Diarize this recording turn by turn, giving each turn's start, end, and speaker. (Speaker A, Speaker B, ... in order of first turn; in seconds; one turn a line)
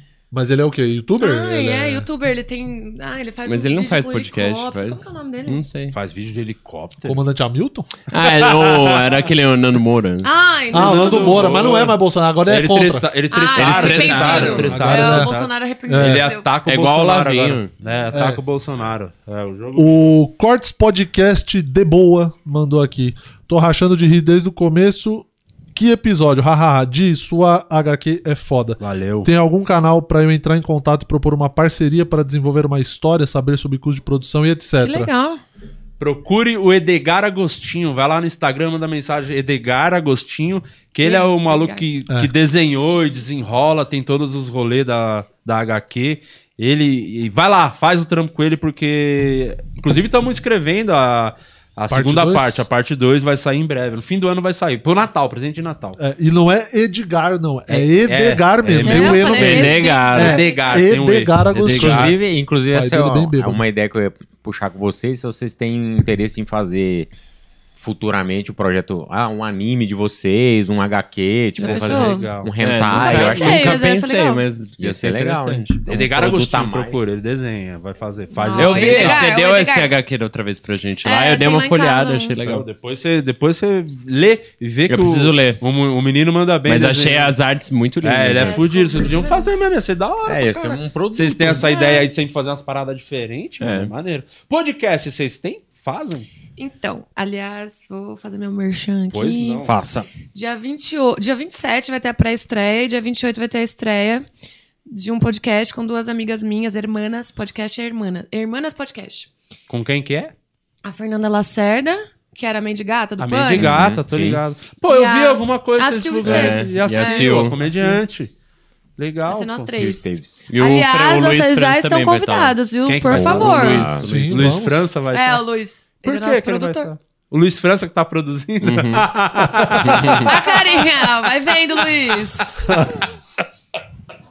Speaker A: 0.3-2.0
Speaker B: 1.2-5.6
Speaker C: 3.5-6.0
Speaker D: 5.9-7.2
Speaker A: 7.0-7.9
Speaker C: 8.1-10.3
Speaker B: 10.2-11.7
Speaker A: 10.7-13.1
Speaker D: 10.7-20.1
Speaker B: 13.3-16.5
Speaker C: 13.5-14.8
Speaker A: 14.6-16.3
Speaker C: 16.6-17.7
Speaker A: 18.1-18.4
Speaker A: 19.8-35.1
Speaker D: 28.8-29.3
Speaker B: 34.8-35.4
Speaker D: 36.0-56.0
Speaker B: 41.0-41.9
Speaker A: 51.9-52.7
Speaker A: 56.0-62.2
Speaker D: 57.7-62.1
Speaker B: 58.8-60.7
Speaker C: 59.2-60.4
Speaker C: 61.6-61.9
Speaker E: 61.8-67.1
Speaker A: 62.7-63.6
Speaker E: 67.8-73.8
Speaker B: 71.6-72.4
Speaker D: 71.6-72.5
Speaker C: 72.6-75.8
Speaker B: 72.9-74.4
Speaker E: 74.8-77.1
Speaker D: 75.8-79.3
Speaker B: 78.3-79.9
Speaker C: 78.6-82.7
Speaker B: 81.0-82.3
Speaker D: 82.4-87.3
Speaker C: 84.9-85.6
Speaker C: 86.7-88.7
Speaker D: 88.0-96.3
Speaker B: 88.3-89.5
Speaker E: 90.2-91.7
Speaker B: 91.6-92.0
Speaker C: 93.6-93.9
Speaker B: 96.6-99.7
Speaker D: 99.1-99.7
Speaker E: 99.6-100.1
Speaker B: 100.2-104.3
Speaker B: 104.9-109.3
Speaker D: 109.7-110.3
Speaker B: 110.8-113.8
Speaker D: 113.2-118.3
Speaker E: 113.5-114.4
Speaker B: 114.8-117.4
Speaker C: 116.2-117.6
Speaker A: 117.7-118.0
Speaker D: 119.0-119.8
Speaker B: 119.3-123.9
Speaker E: 119.7-120.5
Speaker C: 120.5-122.5
Speaker D: 122.8-125.4
Speaker E: 123.1-124.0
Speaker C: 123.2-124.3
Speaker A: 124.0-124.9
Speaker B: 125.1-126.9
Speaker D: 126.0-130.3
Speaker C: 128.6-129.1
Speaker C: 129.8-130.3
Speaker B: 130.1-132.8
Speaker A: 132.7-133.0